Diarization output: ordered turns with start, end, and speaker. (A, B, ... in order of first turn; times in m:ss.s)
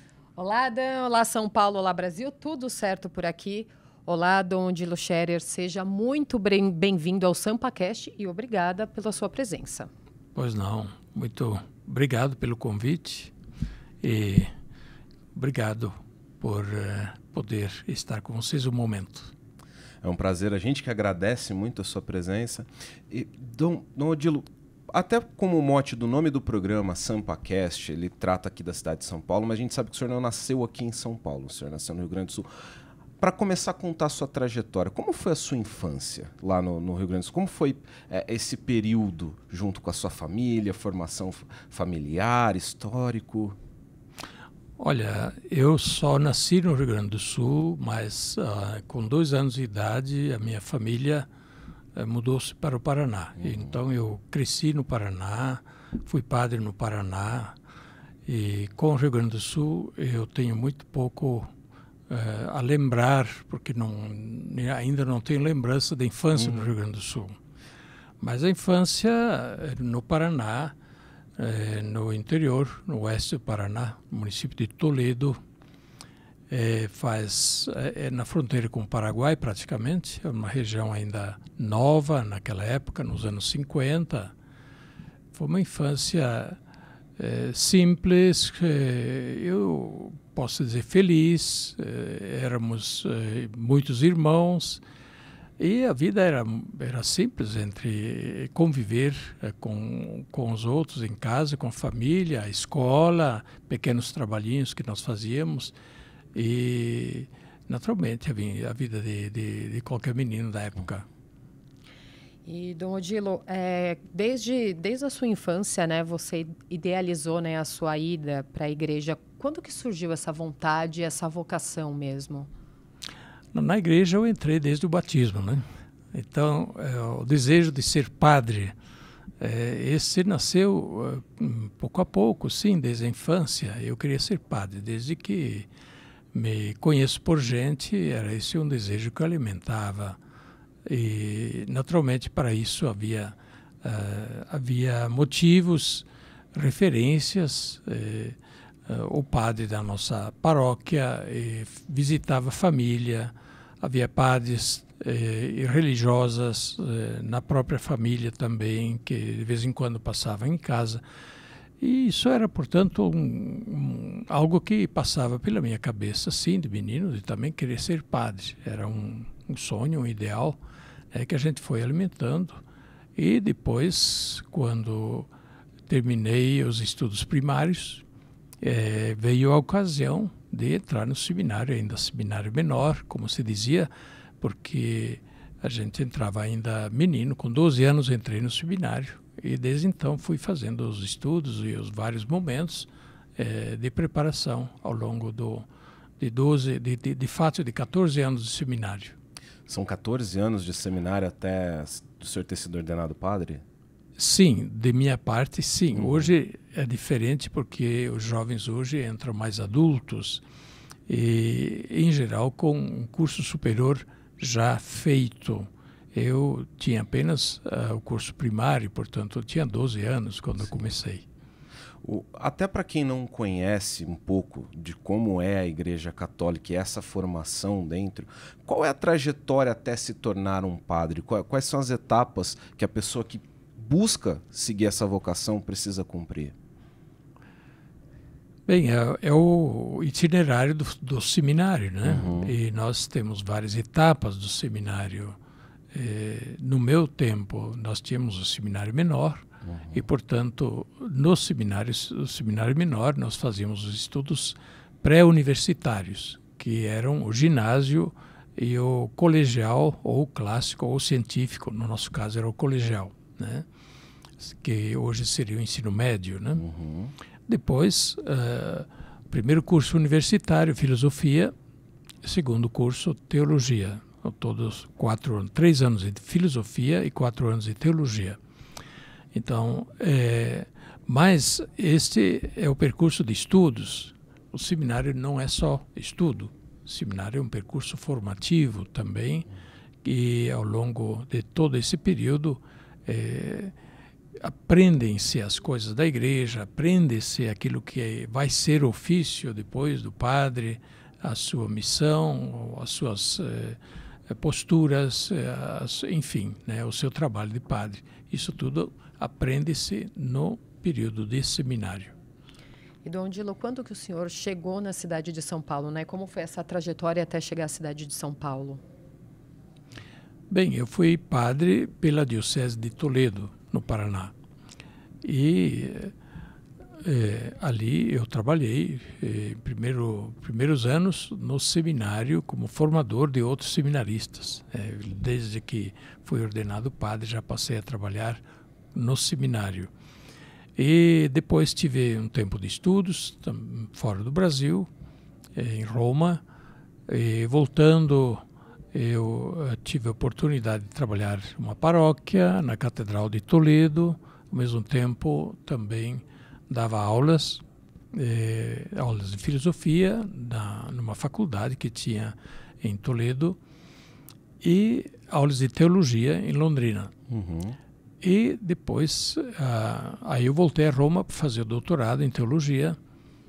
0:00.4-0:09.9 A
0:10.4-0:13.3 B
0:14.0-0:14.5 B
0:15.4-0:19.3 B
0:20.0-0:32.5 C
0:33.2-0:43.6 C
0:44.8-0:51.3 B
0:52.0-0:57.6 B
0:53.4-0:53.7 C
0:58.3-1:01.5 B
1:02.1-1:07.4 B
1:08.2-1:10.8 B
1:11.4-1:15.4 B
1:16.5-1:24.3 B
1:25.3-1:26.6 B
1:27.2-1:34.8 B
1:35.6-1:45.8 B
1:46.3-1:51.1 B
1:52.4-2:02.5 A
2:03.5-2:08.8 B
2:09.4-2:15.7 B
2:16.3-2:20.2 B
2:20.9-2:41.0 B
2:41.8-2:50.6 B
2:51.1-2:52.6 B
2:53.2-2:55.3 B
2:55.9-2:58.0 B
2:58.6-3:03.9 B
3:04.4-3:15.7 B
3:16.2-3:19.2 B
3:19.7-3:23.6 C
3:24.2-3:30.4 B
3:25.9-3:26.3 C
3:31.1-3:41.3 B
3:42.0-3:56.6 C
3:58.7-4:05.4 B
4:02.0-4:02.5 C
4:05.9-4:23.7 B
4:09.6-4:10.0 C
4:24.4-4:26.6 B
4:26.6-4:27.1 C
4:27.5-4:31.5 B
4:32.2-4:38.4 B
4:39.3-4:49.5 B
4:50.0-4:53.7 B
4:54.4-5:03.8 B
5:04.3-5:12.2 B
5:13.0-5:18.8 A
5:20.5-5:24.3 B
5:25.2-5:26.1 B
5:27.0-5:38.4 B
5:38.9-5:39.9 B
5:40.8-5:44.9 B
5:45.6-5:46.4 B
5:47.1-6:03.6 B
6:04.6-6:07.1 B
6:07.3-6:07.8 C
6:08.2-6:13.0 B